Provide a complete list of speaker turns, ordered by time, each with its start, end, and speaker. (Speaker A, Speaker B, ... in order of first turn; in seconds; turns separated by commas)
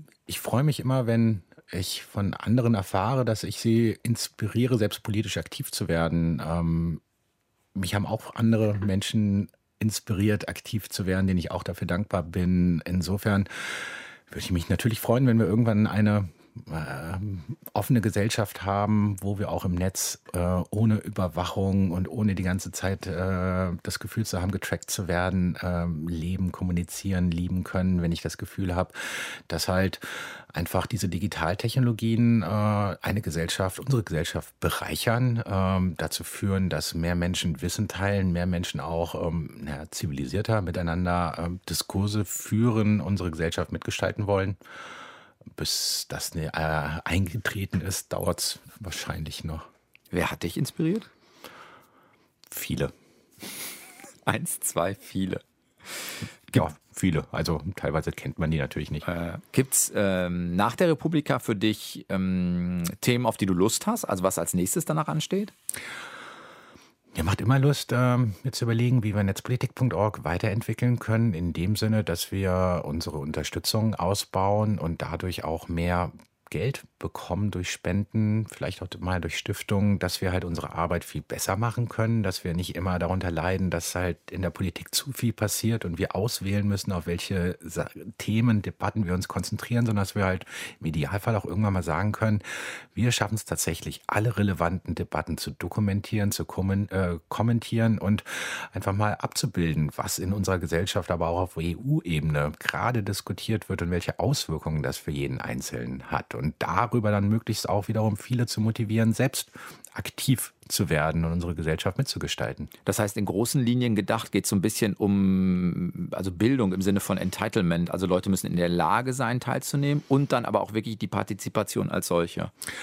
Speaker A: 0.3-7.0, Speaker A: 7.8-44.6, Speaker A: 45.5-49.7, Speaker B: 50.1-51.1, Speaker A: 52.5-52.9, Speaker B: 54.3-55.4, Speaker A: 56.5-59.0, Speaker B: 59.0-65.5, Speaker A: 67.1-112.7, Speaker B: 112.9-122.5